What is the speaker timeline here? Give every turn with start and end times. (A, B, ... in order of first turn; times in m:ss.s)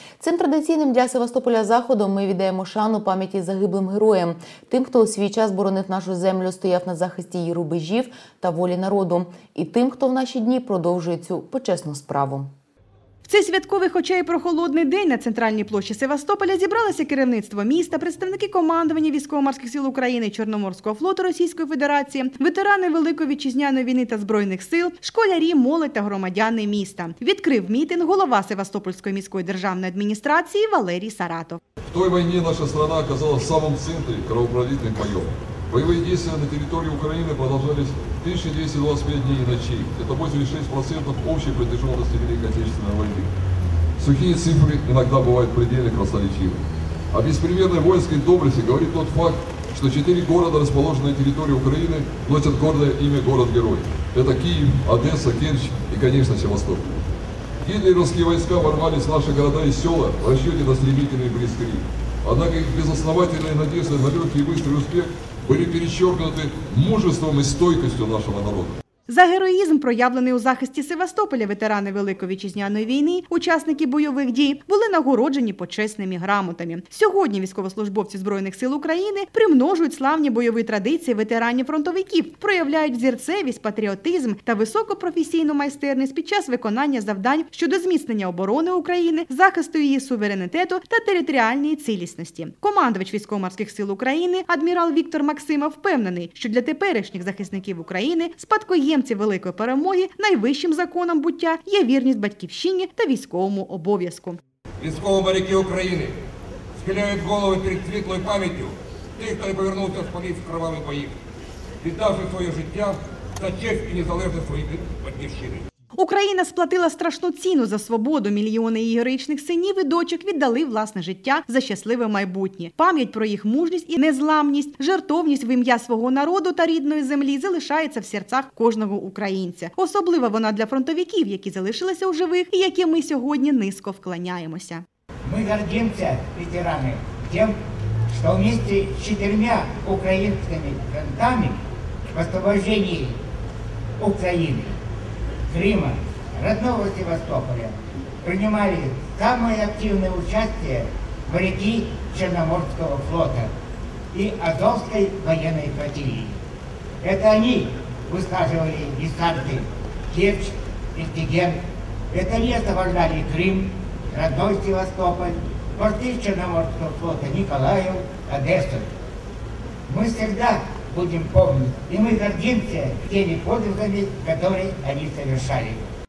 0:00.2-0:12.5 A
0:13.3-0:31.6 B
0:31.9-0:43.3 C
0:44.0-0:57.1 C
0:57.6-1:08.8 C
1:09.1-1:44.4 B
1:44.8-1:46.2 D
1:46.8-1:51.2 D
1:51.8-1:55.7 D
1:56.0-2:14.8 B
2:15.2-2:17.5 E
2:18.1-2:23.2 E
2:24.0-2:24.8 E
2:25.5-2:33.5 E
2:34.1-2:36.4 E
2:37.0-2:41.6 E
2:42.1-2:48.9 E
2:49.9-2:55.8 E